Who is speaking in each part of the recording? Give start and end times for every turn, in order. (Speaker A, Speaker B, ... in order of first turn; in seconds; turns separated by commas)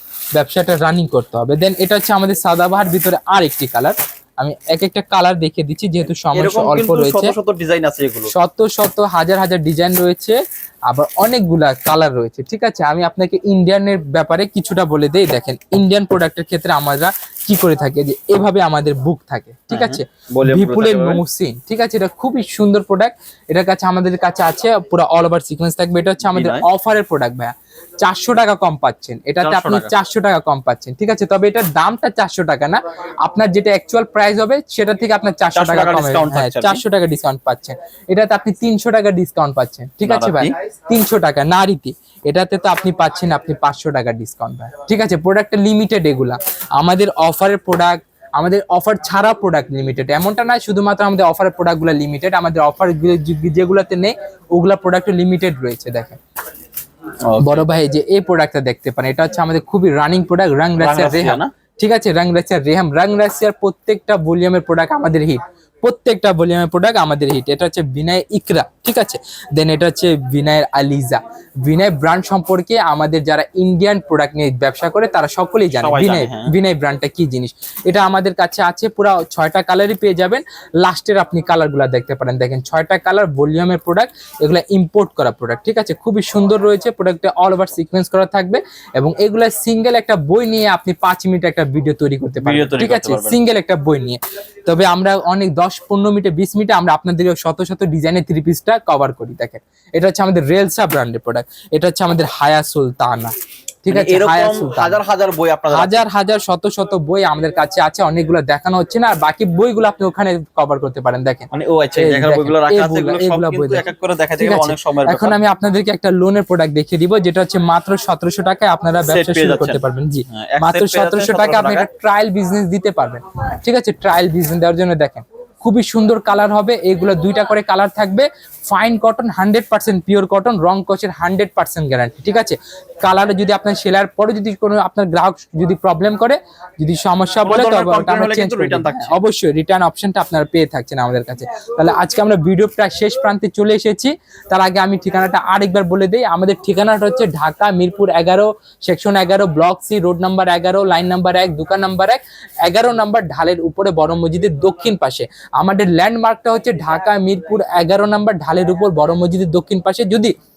Speaker A: 0.3-7.3, Speaker B: 6.3-8.3, Speaker A: 8.3-10.4, Speaker A: 10.9-56.2, Speaker B: 19.7-21.2, Speaker B: 26.2-26.7, Speaker B: 29.4-29.9, Speaker B: 35.5-36.8, Speaker B: 40.0-40.5, Speaker B: 57.3-57.7, Speaker A: 57.4-105.0, Speaker B: 60.8-61.5, Speaker B: 75.7-76.5, Speaker B: 92.4-93.4, Speaker B: 103.9-106.1, Speaker A: 105.7-113.8, Speaker B: 111.5-115.4, Speaker A: 114.4-160.3, Speaker B: 119.1-121.9, Speaker B: 137.4-139.2